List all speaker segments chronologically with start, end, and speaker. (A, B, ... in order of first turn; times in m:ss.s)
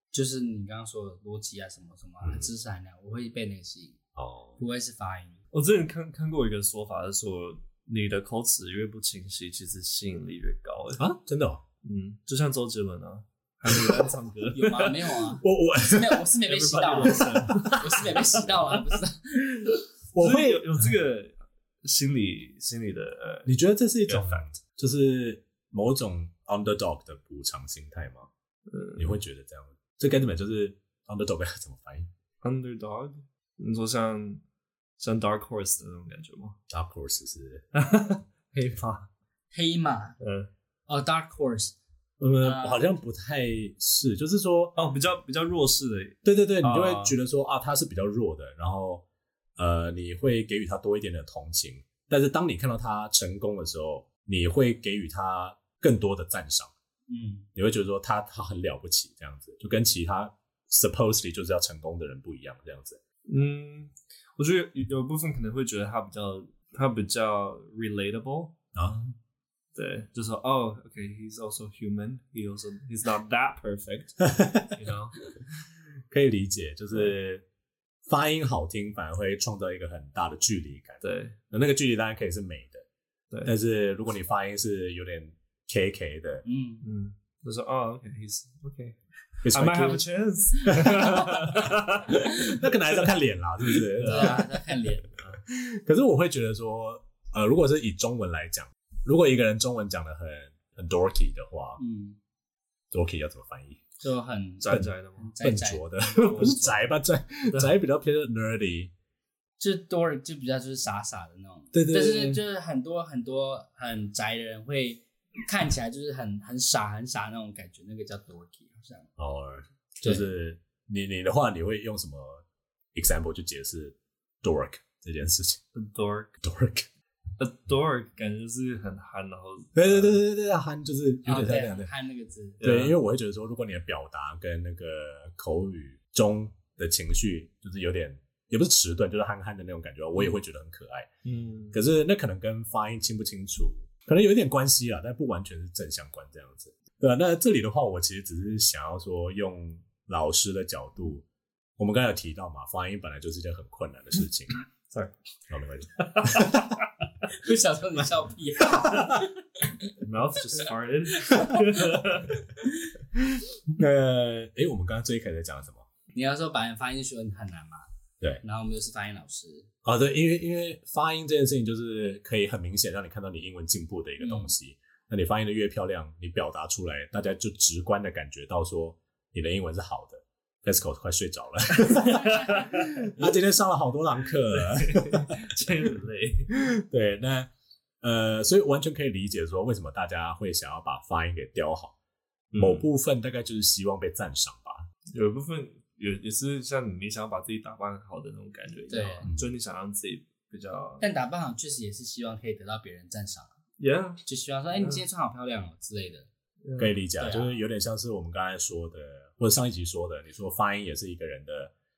0:00.1-0:04.0 A
0:02.2-0:02.5 B
0:04.2-0:04.6 B
0:04.6-0:05.4 A
0:05.5-0:11.0 C
0:11.0-0:11.6 B
0:11.8-0:15.2 C
0:13.7-0:14.0 B
0:14.5-0:19.7 A
0:15.4-0:16.2 B
0:16.4-0:18.9 C
0:17.4-0:17.7 B
0:20.1-0:20.9 B
0:20.2-0:23.5 C
0:23.4-0:28.3 B
0:24.1-0:24.4 C
0:28.7-0:29.2 C
0:29.0-0:32.1 B
0:32.4-0:34.4 C
0:35.0-0:36.6 C
0:36.7-0:37.6 B
0:37.7-0:39.0 C
0:39.5-0:40.2 A
0:40.2-0:40.5 C
0:40.9-0:41.7 A
0:42.2-0:44.7 B
0:42.4-0:42.9 A
0:44.7-0:47.2 C
0:46.2-0:49.0 B
0:49.6-0:56.7 B
0:57.1-0:57.4 A
0:57.6-1:03.0 B
1:03.2-1:08.5 C
1:08.7-1:09.1 B
1:09.7-1:15.2 C
1:14.2-1:14.8 B
1:16.1-1:17.4 B
1:18.1-1:22.8 B
1:21.0-1:21.4 C
1:23.4-1:26.4 B
1:26.4-1:26.8 A
1:26.8-1:29.0 C
1:29.4-1:30.0 B
1:29.5-1:32.7 C
1:30.7-1:34.4 B
1:30.7-1:31.2 A
1:33.7-1:34.5 C
1:34.0-1:35.1 A
1:35.2-1:41.8 B
1:41.8-1:42.2 A
1:42.9-1:43.8 B
1:44.0-1:46.6 A
1:44.6-1:45.3 C
1:44.7-1:48.9 B
1:46.2-1:46.8 C
1:47.5-1:47.7 C
1:49.6-1:59.1 A
1:51.7-1:52.4 B
1:59.2-2:05.6 B
2:05.7-2:06.3 C
2:06.4-2:06.9 B
2:07.4-2:10.2 C
2:09.8-2:11.9 B
2:11.2-2:12.6 A
2:12.6-2:13.0 C
2:12.6-2:21.1 B
2:21.2-2:21.8 C
2:21.7-2:31.2 B
2:31.8-2:34.5 B
2:35.5-2:36.7 B
2:36.0-2:36.7 C
2:37.3-2:39.9 A
2:38.8-2:39.2 B
2:40.0-2:42.4 C
2:41.2-2:42.1 A
2:43.7-2:45.8 B
2:46.1-2:47.8 A
2:48.4-2:49.7 A
2:49.8-3:05.4 B
2:54.2-2:54.5 A
3:01.9-3:03.1 C
3:04.5-3:06.5 C
3:06.5-3:07.5 B
3:08.0-3:11.9 B
3:12.5-3:12.9 C
3:12.6-3:14.9 B
3:15.1-3:21.0 C
3:18.9-3:19.3 A
3:19.2-3:19.5 B
3:21.0-3:23.5 A
3:23.8-3:24.2 C
3:24.2-3:26.3 A
3:24.7-3:25.0 C
3:26.6-3:26.9 C
3:26.8-3:31.7 B
3:27.2-3:27.6 A